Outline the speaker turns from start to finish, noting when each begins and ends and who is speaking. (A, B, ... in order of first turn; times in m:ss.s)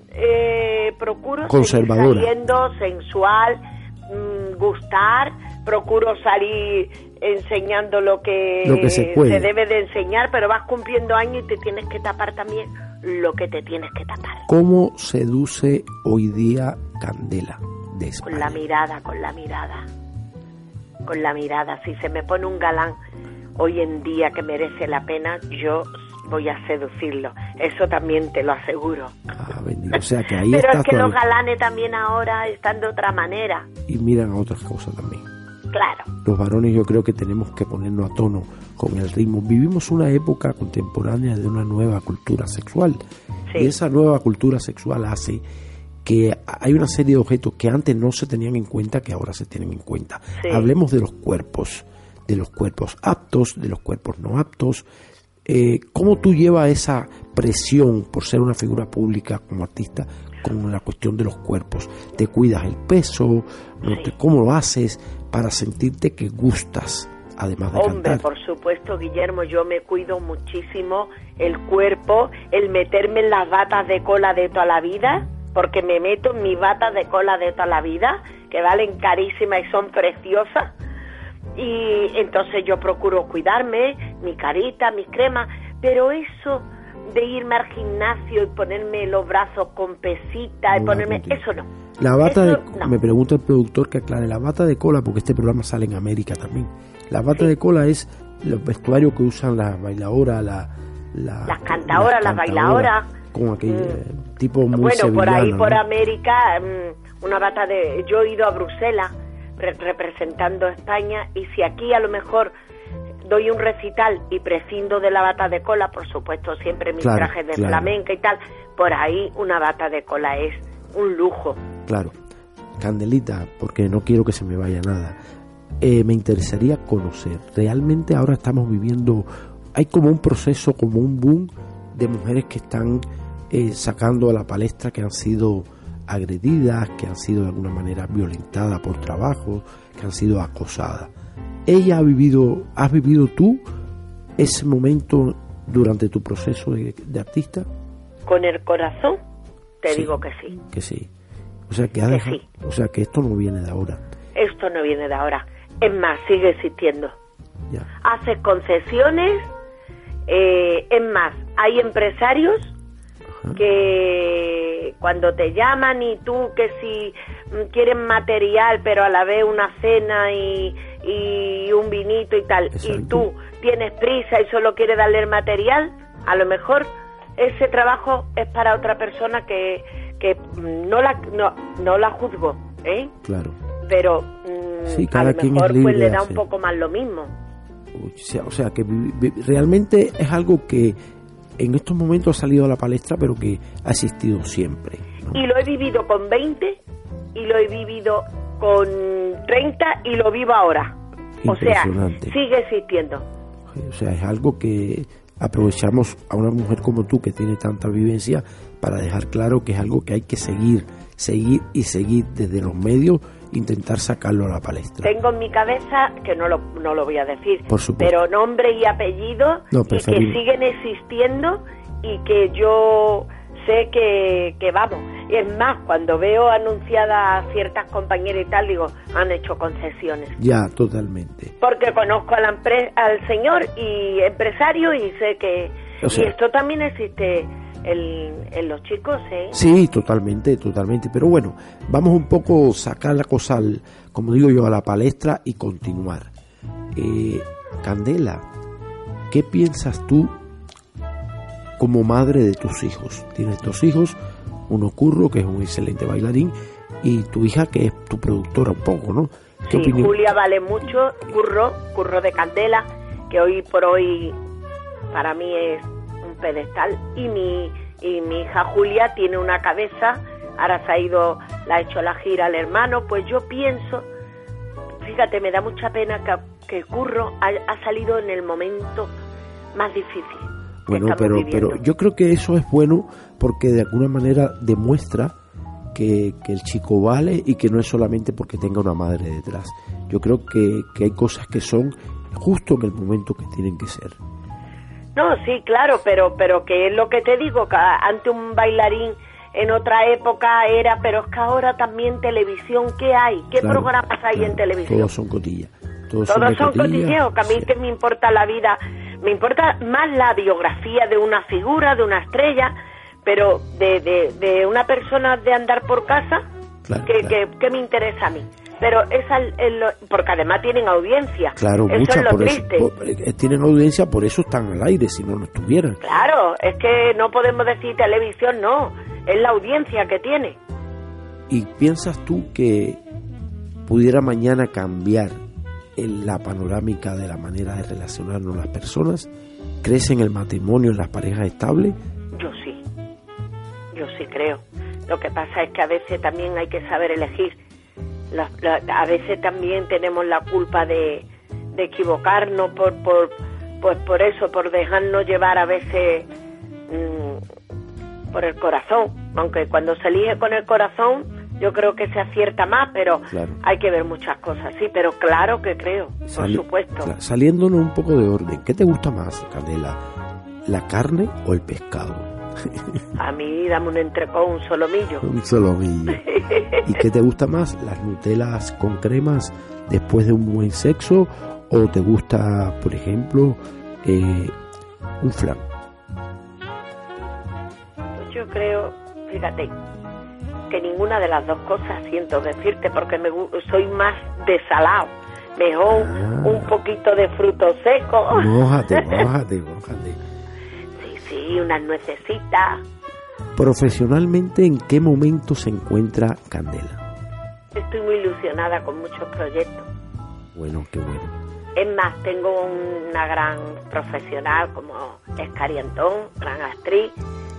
0:00.1-0:14.4 A
0:01.5-0:02.3 B
0:08.6-0:09.5 B
0:14.5-0:18.6 B
0:18.2-0:19.9 A
0:21.0-0:23.0 A
0:23.6-0:29.1 A
0:29.3-0:31.2 B
0:29.9-0:33.7 A
0:33.9-0:35.2 B
0:35.7-0:36.1 A
0:36.2-0:43.0 B
0:43.5-0:43.7 A
0:43.5-0:45.4 B
0:46.0-0:54.8 B
0:50.4-0:50.7 A
0:55.4-1:08.3 B
1:03.8-1:04.1 A
1:07.7-1:20.7 A
1:21.6-1:31.7 A
1:30.7-1:31.4 B
1:32.0-1:45.8 B
1:32.2-1:32.9 A
1:41.4-1:43.1 A
1:43.7-1:44.0 A
1:44.7-1:52.5 A
1:53.2-2:01.6 A
1:57.0-1:57.9 B
2:01.9-2:02.1 B
2:02.8-2:05.2 B
2:05.8-2:21.1 B
2:21.7-2:23.6 B
2:24.4-2:27.7 B
2:28.2-2:29.2 A
2:29.8-2:30.6 A
2:29.9-2:31.1 B
2:31.7-2:34.0 B
2:32.1-2:32.4 A
2:34.4-2:37.1 A
2:38.0-2:39.5 A
2:40.3-2:42.7 A
2:43.5-3:03.1 A
2:52.7-2:53.3 B
3:03.2-3:03.6 B
3:03.8-3:07.3 A
3:04.9-3:06.4 B
3:07.9-3:11.0 B
3:11.6-3:15.4 B
3:15.3-3:16.8 A
3:17.3-3:21.0 A
3:21.4-3:22.4 B
3:21.5-3:23.2 A
3:23.7-3:35.1 B
3:35.0-3:50.4 A
3:37.7-3:38.1 B
3:39.7-3:40.4 B
3:50.4-3:51.5 B
3:51.6-3:59.6 A
3:56.0-3:56.3 B
3:59.5-4:06.3 B
4:06.9-4:08.4 B
4:09.3-4:10.3 B
4:11.8-4:14.2 B
4:14.7-4:20.2 B
4:19.7-4:24.4 A
4:25.1-4:34.1 A
4:35.0-4:39.1 A
4:39.7-4:41.8 A
4:40.9-4:45.4 B
4:45.9-4:54.2 B
4:55.2-5:05.1 A
5:03.6-5:07.7 B
5:06.3-5:16.4 A
5:16.8-5:17.4 B
5:17.0-5:22.9 A
5:21.6-5:26.0 B
5:26.0-5:30.6 A
5:31.5-5:33.0 B
5:33.8-5:35.4 B
5:36.0-5:39.3 B
5:39.8-5:42.0 B
5:42.3-5:42.8 A
5:43.9-5:47.6 A
5:48.3-5:56.3 A
5:56.9-5:57.4 A
5:58.3-6:07.1 A
6:03.3-6:03.6 B
6:06.3-6:10.0 B
6:10.7-6:13.0 B
6:13.2-6:15.2 A
6:15.2-6:16.2 B
6:16.2-6:17.0 A
6:16.8-6:24.5 B
6:25.2-6:25.6 B
6:28.2-6:29.7 A
6:30.7-6:39.2 A
6:35.9-6:36.7 B
6:38.3-6:40.2 B
6:41.0-6:42.8 A
6:43.6-6:47.0 B
6:47.7-6:49.9 A
6:50.5-6:51.3 B
6:51.8-6:57.1 A